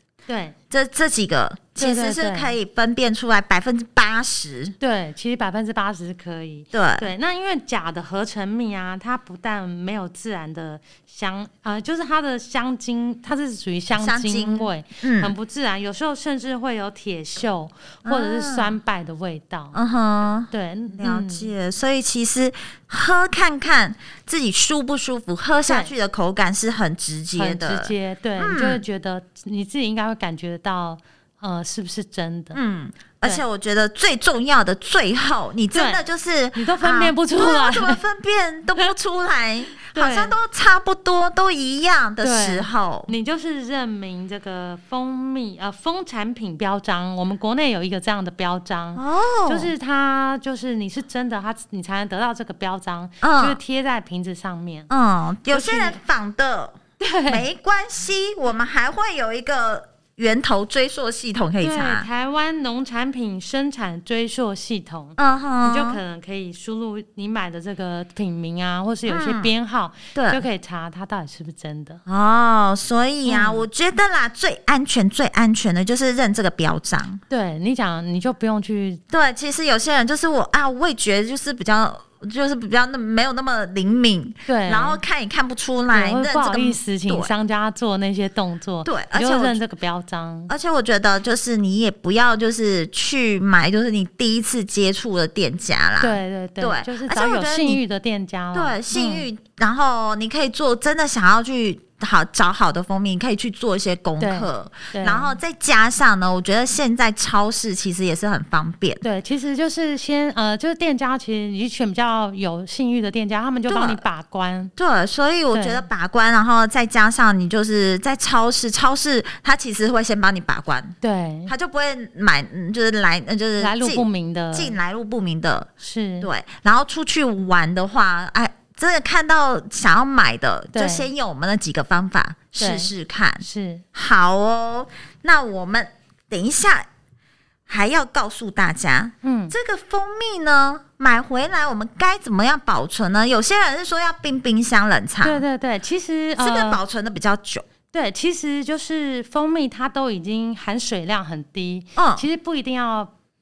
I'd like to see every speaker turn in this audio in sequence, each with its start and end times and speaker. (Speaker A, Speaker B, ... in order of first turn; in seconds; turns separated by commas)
Speaker A: 0.3-0.6, Speaker B: 0.7-4.8, Speaker A: 1.8-2.5, Speaker A: 4.8-19.8, Speaker B: 6.7-7.1, Speaker B: 14.0-15.3, Speaker B: 18.1-18.7, Speaker B: 19.7-28.8, Speaker A: 20.5-21.5, Speaker A: 25.7-25.9, Speaker A: 27.4-32.6, Speaker B: 32.5-43.1, Speaker A: 35.7-36.0, Speaker A: 36.5-38.0, Speaker A: 39.9-40.3, Speaker A: 42.2-54.9, Speaker B: 49.0-49.7, Speaker B: 53.2-53.6, Speaker B: 54.9-62.1, Speaker A: 55.5-56.0, Speaker A: 57.0-57.5, Speaker A: 61.6-72.0, Speaker B: 65.2-66.0, Speaker B: 69.1-69.5, Speaker B: 70.1-70.4, Speaker B: 72.1-77.2, Speaker A: 73.2-73.7, Speaker A: 77.3-79.0, Speaker B: 79.1-87.3, Speaker A: 84.5-85.0, Speaker A: 85.9-90.5, Speaker B: 88.9-89.6, Speaker B: 90.5-97.8, Speaker A: 96.0-99.3, Speaker B: 98.5-109.0, Speaker A: 104.2-105.4, Speaker A: 109.0-114.7, Speaker B: 113.7-114.0, Speaker B: 114.8-125.7, Speaker A: 115.5-115.8, Speaker A: 121.0-121.5, Speaker A: 123.6-124.8, Speaker A: 125.8-126.3, Speaker B: 126.2-133.4, Speaker A: 130.7-131.1, Speaker A: 132.6-133.8, Speaker B: 133.9-136.9, Speaker B: 137.7-145.4, Speaker A: 139.2-139.5, Speaker A: 145.2-146.8, Speaker B: 146.4-147.7, Speaker A: 147.9-153.1, Speaker B: 152.0-152.2